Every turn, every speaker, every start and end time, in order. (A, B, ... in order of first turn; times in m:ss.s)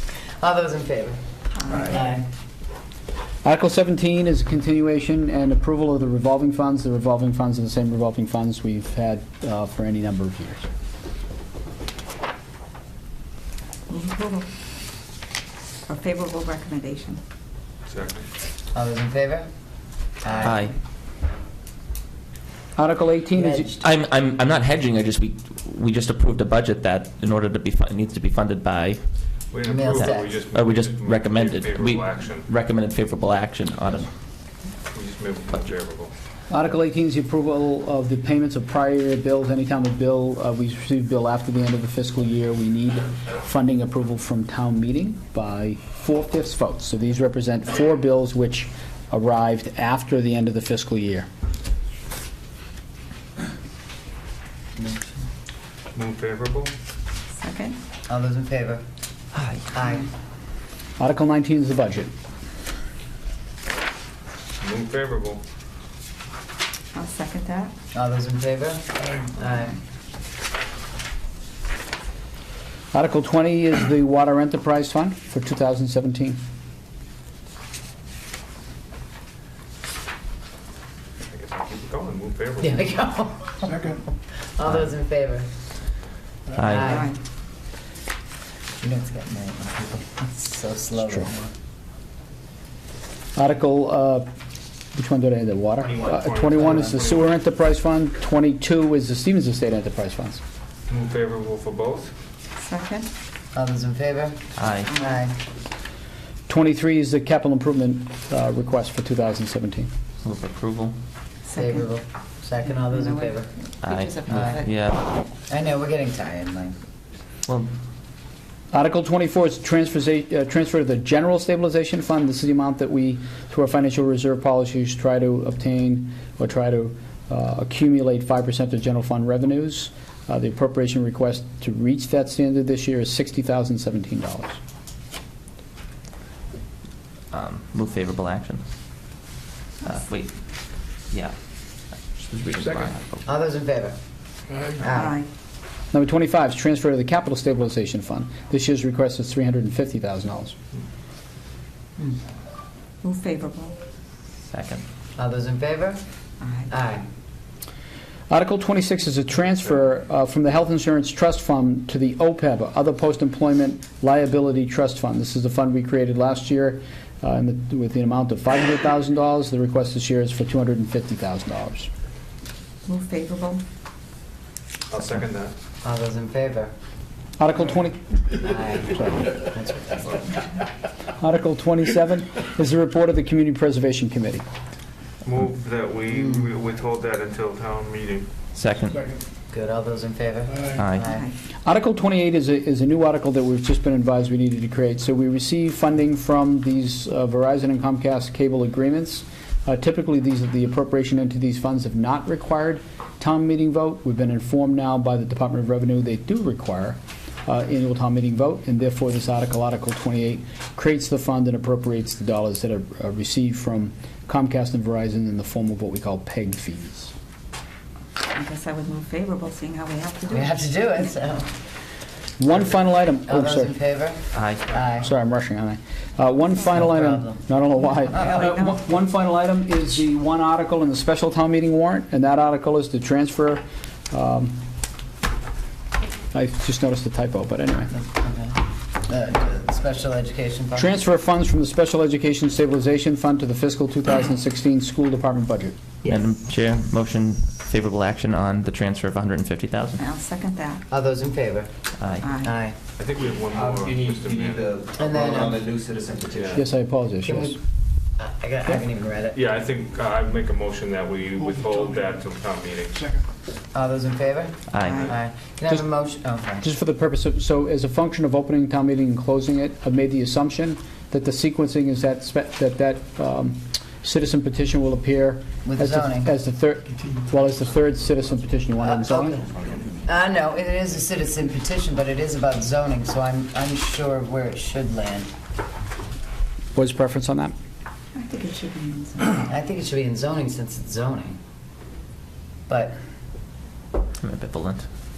0:00.4-0:02.3 A
0:03.4-0:10.6 B
0:13.9-0:14.5 C
0:15.8-0:17.2 C
0:17.9-0:18.3 D
0:18.7-0:19.5 A
0:20.2-0:20.6 A
0:20.4-0:20.7 E
0:22.8-0:23.7 B
0:23.3-0:23.8 A
0:23.8-0:29.0 E
0:29.5-0:32.5 D
0:29.6-0:30.4 A
0:29.9-0:34.1 E
0:34.9-0:36.1 D
0:36.5-0:51.3 B
0:54.8-0:55.2 A
0:55.9-0:56.7 D
0:57.4-0:57.8 C
0:58.1-0:58.8 A
0:59.3-0:59.7 E
0:59.7-1:00.1 A
1:01.0-1:02.1 B
1:04.6-1:05.4 D
1:06.9-1:07.7 C
1:07.9-1:09.8 A
1:12.9-1:16.4 B
1:21.2-1:22.9 D
1:22.6-1:24.0 A
1:24.6-1:25.4 A
1:26.5-1:26.9 E
1:26.6-1:27.1 A
1:28.8-1:31.5 A
1:33.4-1:34.3 B
1:34.9-1:40.4 B
1:35.8-1:37.3 D
1:40.9-1:42.1 D
1:42.6-1:43.1 C
1:43.5-1:45.4 A
1:44.6-1:45.0 E
1:46.5-1:49.9 B
1:50.2-1:50.9 E
1:51.5-1:51.9 C
1:51.5-1:53.5 A
1:52.7-1:54.7 C
1:53.8-1:55.0 E
1:54.2-1:54.6 A
1:55.5-1:56.8 A
1:58.7-2:14.6 B
2:17.3-2:18.6 E
2:19.8-2:20.3 E
2:21.1-2:21.3 E
2:22.0-2:23.2 E
2:23.2-2:24.0 A
2:24.8-2:25.2 A
2:24.9-2:25.3 C
2:25.9-2:30.5 B
2:33.0-2:33.8 C
2:34.5-2:34.8 E
2:35.2-2:36.0 A
2:36.4-2:36.7 C
2:36.7-2:37.0 A
2:38.3-2:51.9 B
2:52.8-2:53.6 C
2:54.9-2:55.5 D
2:55.8-2:56.7 A
2:57.4-2:58.0 B
2:58.4-3:00.4 A
3:01.2-3:04.4 B
3:05.2-3:08.3 D
3:06.1-3:06.5 A
3:08.5-3:09.0 E
3:09.5-3:11.3 A
3:10.8-3:11.0 E
3:11.6-3:37.1 B
3:38.3-3:40.7 C
3:40.3-3:41.5 A
3:42.4-3:43.7 B
3:43.2-3:45.1 A
3:44.3-3:44.6 E
3:45.0-3:54.6 B
3:46.7-3:47.4 A
3:48.1-3:48.8 C
3:56.3-3:57.9 B
3:57.9-4:00.9 A
4:00.7-4:05.7 B
4:06.0-4:06.3 A
4:06.0-4:10.0 E
4:10.0-4:10.8 C
4:10.9-4:11.7 A
4:12.0-4:12.3 E
4:12.2-4:12.5 C
4:12.4-4:12.8 A
4:13.0-4:14.7 D
4:13.5-4:16.6 F
4:15.0-4:15.7 A
4:16.5-4:17.6 B
4:17.2-4:17.6 A
4:18.2-4:19.4 A
4:19.3-4:22.9 D
4:21.5-4:22.0 F
4:23.7-4:26.6 A
4:24.7-4:25.1 E
4:24.8-4:25.1 C
4:26.6-4:39.4 B
4:35.6-4:36.3 A
4:38.8-4:45.3 A
4:46.8-4:47.5 B
4:48.1-4:49.5 C
4:49.4-4:51.4 A
4:52.7-4:52.9 A
4:54.2-4:54.8 E